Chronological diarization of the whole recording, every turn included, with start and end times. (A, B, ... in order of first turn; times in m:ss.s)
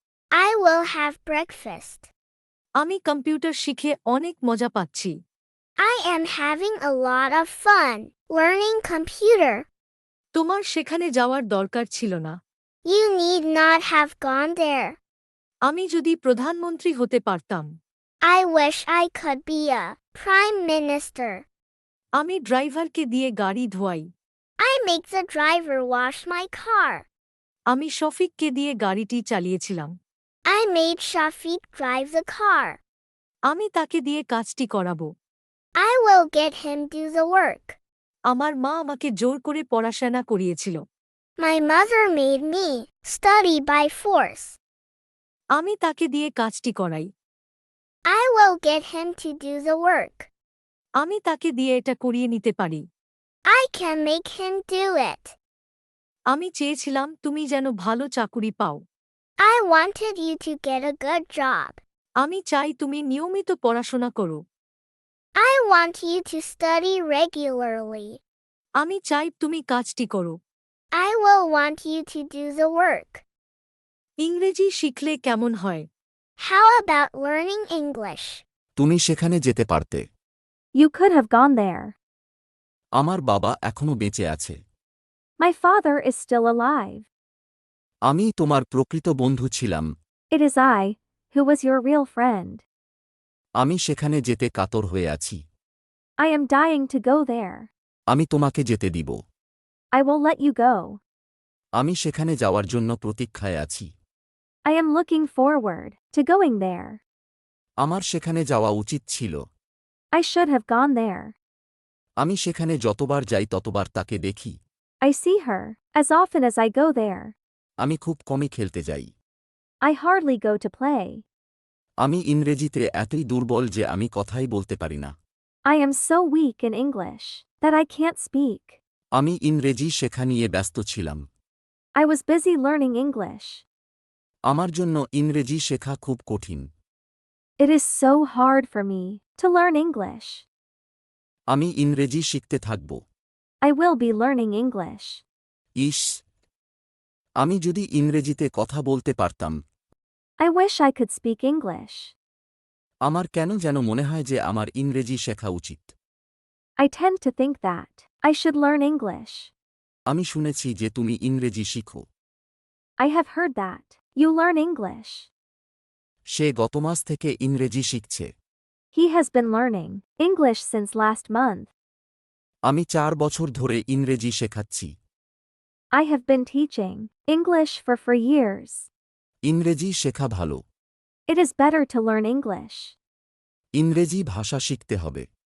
0:00.3-0:02.1 A
0:02.8-0:05.2 B
0:05.8-0:09.7 A
0:10.4-0:12.4 B
0:12.8-0:15.0 A
0:15.7-0:17.7 B
0:18.2-0:21.5 A
0:22.2-0:24.1 B
0:24.6-0:27.1 A
0:27.7-0:29.9 B
0:30.5-0:32.8 A
0:33.5-0:35.1 B
0:35.8-0:37.8 A
0:38.3-0:40.8 B
0:41.4-0:44.6 A
0:45.6-0:47.1 B
0:48.1-0:50.3 A
0:51.0-0:52.8 B
0:53.5-0:55.4 A
0:56.3-0:58.8 B
0:59.4-1:01.8 A
1:02.2-1:04.4 B
1:05.4-1:08.2 A
1:08.8-1:10.4 B
1:10.9-1:13.2 A
1:14.2-1:15.9 B
1:16.4-1:18.4 A
1:18.8-1:20.0 C
1:20.8-1:22.0 D
1:23.0-1:24.6 C
1:25.4-1:27.1 D
1:28.1-1:29.9 C
1:30.3-1:32.6 D
1:33.6-1:35.4 C
1:36.2-1:37.7 D
1:38.1-1:39.2 C
1:39.9-1:41.0 D
1:41.8-1:43.9 C
1:44.6-1:47.0 D
1:47.8-1:49.4 C
1:50.1-1:51.4 D
1:52.2-1:54.6 C
1:55.0-1:57.4 D
1:57.8-1:59.1 C
1:59.8-2:01.2 D
2:02.0-2:05.1 C
2:05.6-2:08.8 D
2:09.2-2:11.2 C
2:12.0-2:13.6 D
2:14.5-2:16.7 C
2:17.6-2:20.5 D
2:21.5-2:23.0 C
2:23.6-2:25.2 D
2:27.4-2:29.6 C
2:30.4-2:32.1 D
2:33.1-2:35.9 C
2:36.8-2:39.5 D
2:40.1-2:42.1 C
2:43.0-2:45.3 D
2:46.4-2:48.3 C
2:48.9-2:51.7 D
2:52.7-2:54.9 C
2:55.9-2:58.9 D
2:59.5-3:00.6 C
3:01.3-3:03.0 D
3:03.8-3:05.3 C